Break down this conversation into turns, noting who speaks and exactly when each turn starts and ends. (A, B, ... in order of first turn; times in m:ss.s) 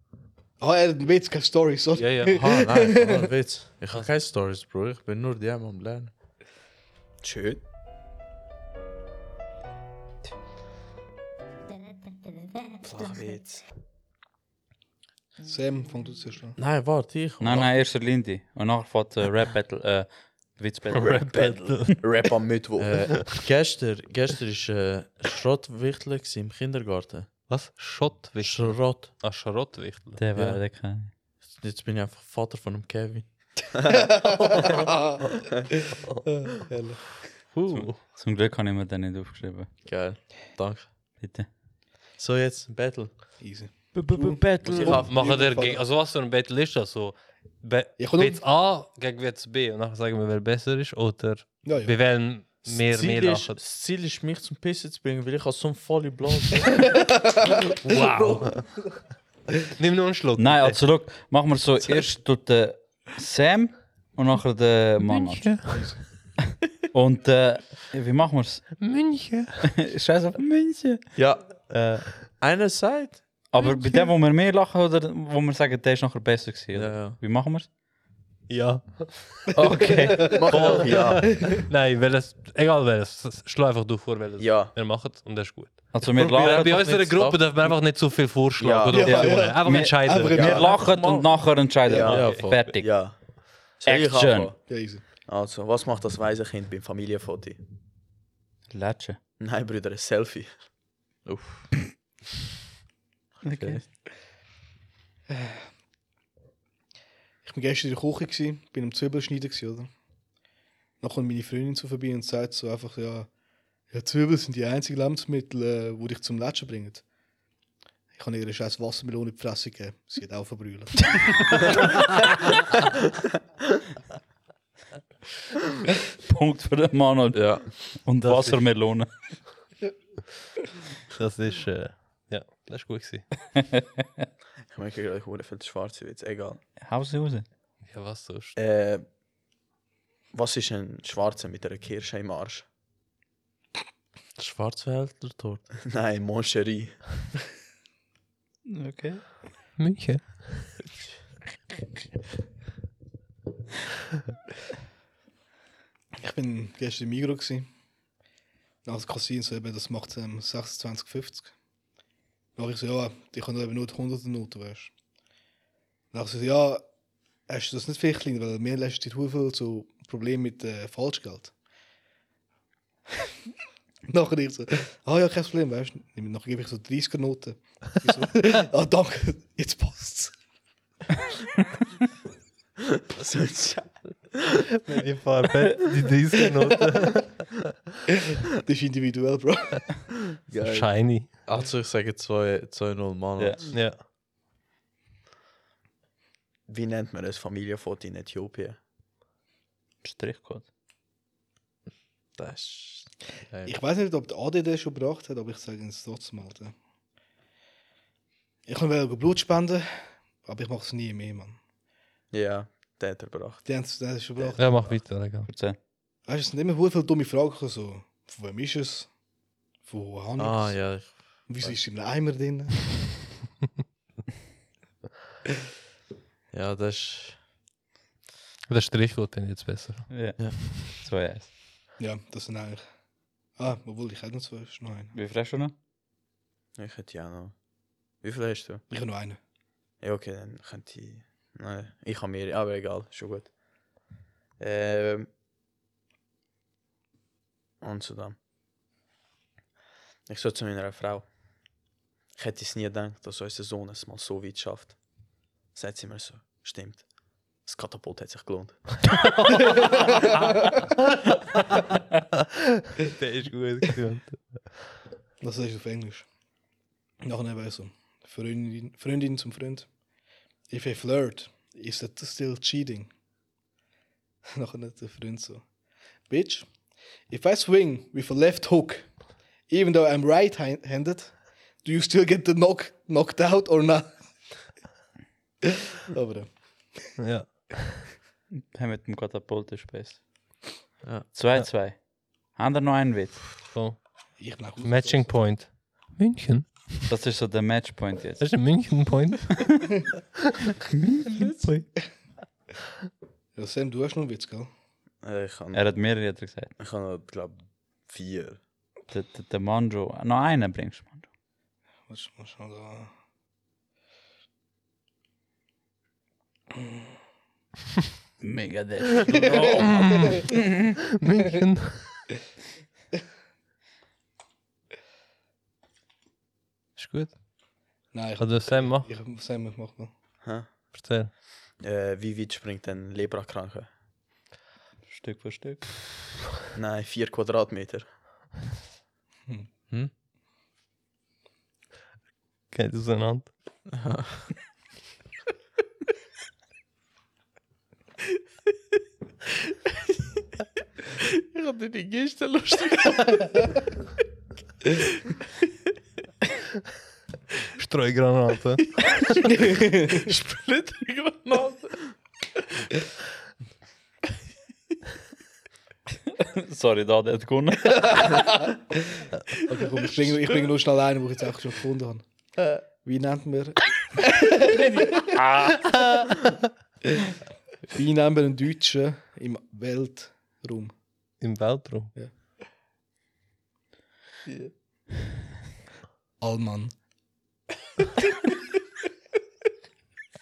0:00.6-0:03.3 A
0:02.0-0:02.4 B
0:02.3-0:06.1 C
0:07.2-0:07.6 D
0:12.8-0:13.6 D
0:15.4-0:16.6 A
0:16.6-0:17.7 C
0:17.4-0:22.0 E
0:21.0-0:21.9 B
0:21.0-0:23.0 D
0:22.8-0:27.3 C
0:27.5-0:30.2 B
0:28.4-0:29.2 C
0:30.2-0:31.1 E
0:30.3-0:30.6 C
0:31.4-0:33.7 C
0:33.7-0:34.1 D
0:33.9-0:35.2 A
0:34.5-0:34.9 B
0:35.9-0:37.1 A
0:37.5-0:38.0 B
0:37.7-0:39.7 E
0:39.8-0:40.9 C
0:41.2-0:41.5 E
0:42.2-0:43.1 C
0:43.4-0:45.8 A
0:43.9-0:45.0 E
0:44.6-0:45.2 D
0:45.0-0:53.6 B
0:48.0-0:48.4 A
0:51.6-0:51.9 A
0:52.6-0:57.1 C
0:56.9-0:58.7 A
0:57.8-0:58.7 B
0:59.8-1:00.8 B
1:00.4-1:05.9 E
1:05.0-1:05.9 B
1:05.6-1:06.0 A
1:06.9-1:08.7 E
1:08.8-1:09.6 B
1:09.6-1:11.1 E
1:11.2-1:13.2 C
1:11.7-1:12.0 E
1:13.5-1:17.7 E
1:16.7-1:17.2 C
1:18.5-1:30.6 B
1:19.5-1:20.9 E
1:19.8-1:20.4 A
1:20.3-1:21.5 D
1:21.2-1:21.6 A
1:24.4-1:24.7 D
1:25.9-1:27.3 E
1:28.6-1:29.3 D
1:28.9-1:30.8 A
1:29.0-1:33.1 E
1:30.3-1:30.7 D
1:30.7-1:32.7 C
1:31.9-1:34.7 D
1:32.2-1:32.5 B
1:33.8-1:34.5 E
1:34.7-1:35.0 A
1:35.2-1:37.6 D
1:38.7-1:39.2 E
1:39.4-1:40.6 D
1:41.2-1:41.6 C
1:43.4-1:43.9 D
1:43.4-1:43.8 E
1:45.3-1:45.7 A
1:47.4-1:49.9 A
1:51.0-1:53.3 A
1:53.9-1:57.0 A
1:58.1-2:01.4 A
2:01.1-2:01.9 E
2:06.0-2:09.1 E
2:07.3-2:08.0 C
2:08.2-2:08.6 B
2:11.1-2:13.3 B
2:13.6-2:14.2 E
2:14.7-2:16.6 D
2:16.8-2:17.4 E
2:17.8-2:18.6 B
2:18.6-2:19.0 D
2:20.3-2:22.6 D
2:24.4-2:25.7 C
2:25.8-2:27.0 D
2:28.6-2:29.4 E
2:29.8-2:30.5 B
2:36.1-2:37.7 A
2:38.8-2:41.5 A
2:42.6-2:44.9 A
2:46.1-2:46.8 A
2:47.5-2:51.5 A
2:54.1-3:00.3 A
3:03.0-3:04.6 D
3:04.9-3:07.4 B
3:08.6-3:10.0 A
3:10.5-3:10.9 D
3:10.6-3:11.3 B
3:11.4-3:13.7 C
3:13.4-3:13.7 E
3:13.7-3:14.0 B
3:16.7-3:18.8 D
3:20.0-3:20.6 E
3:22.4-3:23.8 C
3:23.6-3:26.7 A
3:28.6-3:31.6 A
3:32.3-3:33.6 D
3:33.6-3:35.0 A
3:34.4-3:34.9 D
3:34.6-3:35.5 B
3:35.4-3:35.8 E
3:36.2-3:39.1 A
3:39.8-3:43.0 A
3:40.4-3:41.8 C
3:46.5-3:47.4 C
3:48.7-3:50.1 B
3:50.1-3:51.5 E
3:50.4-3:50.9 C
3:52.0-3:52.8 A
3:53.6-3:55.1 A
3:55.1-3:55.7 E
3:56.8-3:57.6 D
3:58.2-3:58.8 D
3:58.9-3:59.4 A
4:00.0-4:03.5 D
4:04.6-4:05.3 D
4:07.8-4:08.4 D
4:10.3-4:11.2 D
4:12.3-4:15.0 D
4:15.7-4:17.1 D
4:17.6-4:19.1 D
4:19.7-4:20.6 A
4:23.0-4:24.7 B
4:25.4-4:26.2 A
4:27.2-4:29.9 A
4:30.7-4:33.1 A
4:34.5-4:35.6 A
4:36.3-4:36.7 A
4:37.3-4:39.1 A
4:39.7-4:44.2 A
4:45.6-4:47.1 A
4:47.2-4:48.1 B
4:48.7-4:50.6 E
4:51.0-4:51.3 C
4:51.3-4:53.6 E
4:53.5-4:54.3 B
4:54.4-4:55.3 A
4:54.8-4:57.0 B
4:57.1-4:58.4 E
4:58.4-5:00.0 B
5:00.8-5:01.5 E
5:03.5-5:04.7 A
5:05.2-5:05.8 D
5:05.7-5:06.7 E
5:06.8-5:08.6 D
5:09.1-5:11.2 E
5:12.1-5:13.1 A
5:18.4-5:21.0 E
5:19.4-5:20.4 A
5:19.8-5:20.6 B
5:21.1-5:22.2 B
5:27.0-5:27.3 B
5:28.1-5:30.1 A
5:28.4-5:29.1 B
5:30.4-5:30.9 D
5:30.9-5:31.3 B
5:31.8-5:33.9 D
5:35.1-5:36.0 E
5:36.7-5:38.1 D
5:42.7-5:43.5 B
5:44.0-5:44.3 C
5:51.5-5:53.1 C
5:57.8-5:59.1 B
5:59.5-6:00.3 A
6:00.3-6:01.8 C
6:06.4-6:08.7 E
6:09.7-6:12.2 A
6:13.0-6:15.3 A
6:14.6-6:16.3 E
6:17.9-6:20.9 A
6:21.4-6:22.1 B
6:26.4-6:27.0 A